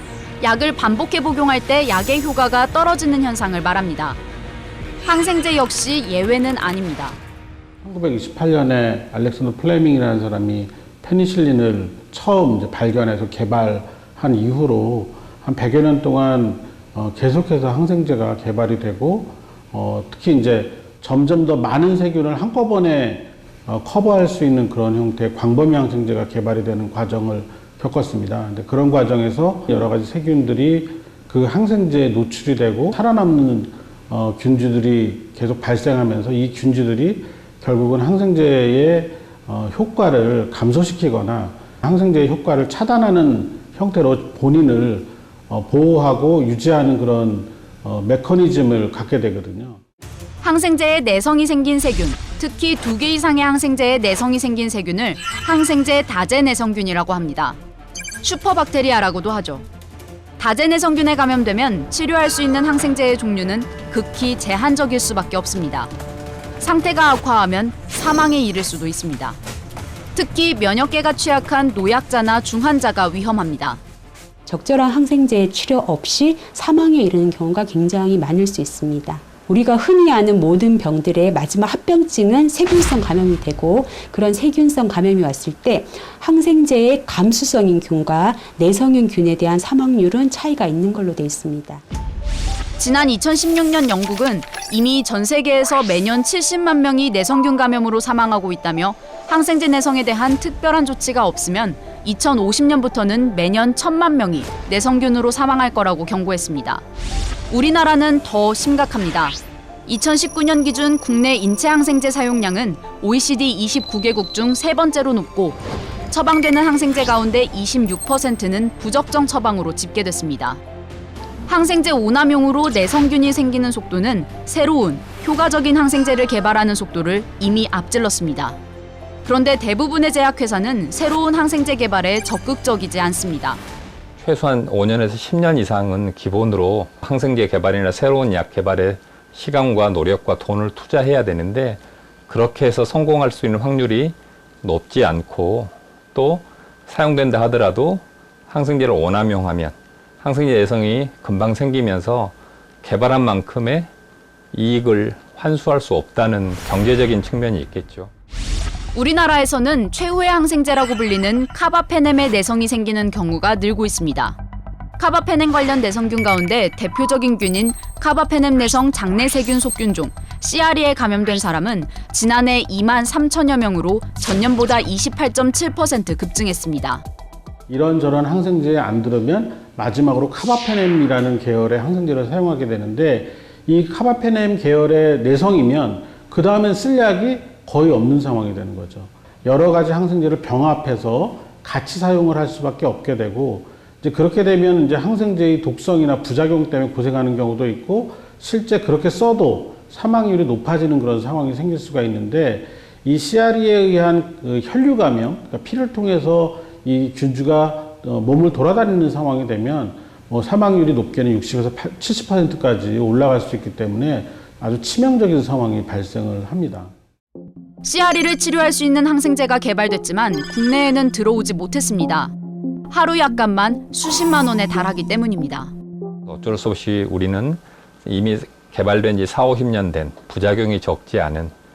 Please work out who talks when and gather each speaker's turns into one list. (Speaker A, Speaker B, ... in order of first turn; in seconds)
Speaker A: 0.4-4.2, 5.0-7.2, 50.4-57.6, 58.2-59.6, 60.4-65.9, 66.6-69.4, 70.1-73.8, 92.8-106.8, 107.5-120.6, 121.5-128.6, 129.2-133.6, 158.9-164.4, 165.0-177.0, 217.8-222.3, 222.9-225.7
Speaker B: 7.8-49.8, 177.7-216.9
Speaker C: 74.5-91.8
Speaker D: 134.2-153.9, 154.5-158.1, 226.3-231.5